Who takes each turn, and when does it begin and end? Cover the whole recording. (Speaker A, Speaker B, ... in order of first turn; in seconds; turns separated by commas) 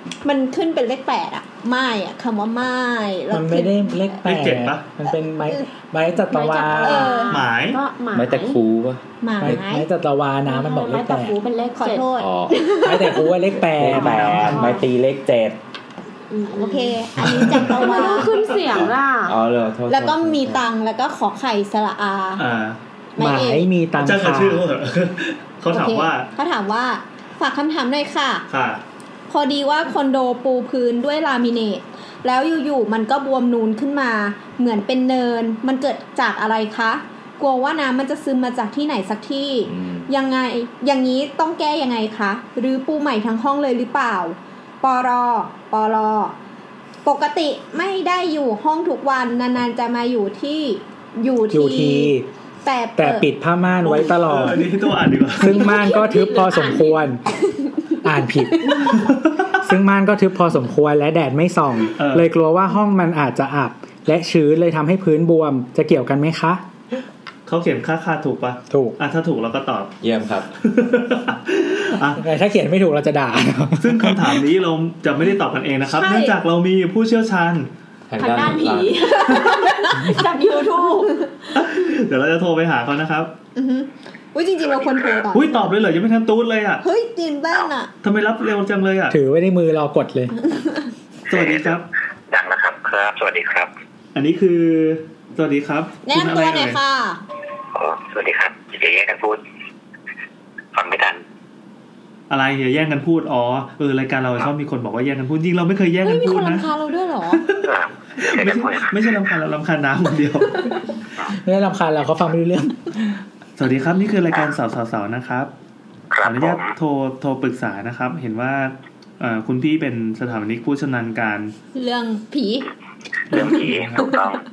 Speaker A: 0.2-4.1, Speaker B: 3.3-7.1, Speaker C: 4.2-4.8, Speaker D: 6.3-8.6, Speaker A: 6.7-7.5, Speaker C: 7.3-7.8, Speaker E: 8.1-9.6, Speaker A: 9.2-9.9, Speaker B: 9.4-11.3, Speaker D: 10.4-12.1, Speaker A: 11.8-13.3, Speaker E: 12.2-12.7, Speaker B: 12.8-14.6, Speaker E: 13.7-15.6, Speaker D: 14.5-14.8, Speaker D: 16.3-17.0, Speaker A: 16.5-18.3, Speaker C: 17.2-18.4, Speaker D: 17.5-19.4, Speaker E: 18.7-20.6, Speaker A: 19.9-22.4, Speaker C: 22.4-22.8, Speaker A: 23.1-23.6, Speaker B: 23.2-24.7, Speaker C: 24.0-26.3, Speaker A: 25.7-28.4, Speaker C: 28.5-28.8, Speaker A: 29.3-46.3, Speaker E: 39.7-40.1, Speaker A: 47.0-53.3, Speaker B: 51.5-52.3, Speaker B: 53.0-54.7, Speaker C: 53.8-55.7, Speaker B: 55.4-57.2, Speaker A: 55.5-56.9, Speaker B: 58.0-59.0, Speaker A: 58.6-58.9, Speaker C: 59.0-59.5, Speaker B: 59.6-66.6, Speaker C: 62.0-62.3, Speaker C: 67.5-70.0, Speaker B: 68.7-69.0, Speaker E: 70.0-70.5, Speaker C: 70.6-72.2, Speaker B: 72.2-74.4, Speaker C: 73.8-77.7, Speaker A: 75.9-76.3, Speaker E: 78.1-79.2, Speaker D: 78.2-79.3, Speaker A: 79.0-81.3, Speaker D: 79.9-81.2, Speaker C: 81.5-83.3, Speaker A: 83.5-85.7, Speaker F: 84.8-85.2, Speaker C: 85.3-86.8, Speaker A: 86.8-87.9, Speaker C: 88.0-89.2, Speaker B: 89.1-90.3, Speaker A: 90.4-90.9, Speaker C: 91.3-91.8, Speaker F: 91.3-93.7, Speaker C: 94.1-96.8, Speaker A: 96.0-97.2, Speaker F: 97.7-99.4, Speaker F: 100.7-101.2, Speaker C: 102.3-106.7, Speaker A: 106.0-107.4, Speaker C: 107.3-110.7, Speaker F: 107.6-108.9, Speaker B: 111.3-113.2, Speaker C: 113.6-115.5, Speaker F: 116.1-116.7, Speaker C: 116.2-121.5, Speaker A: 121.7-122.7, Speaker C: 123.3-124.1, Speaker F: 123.3-124.4, Speaker A: 123.3-124.2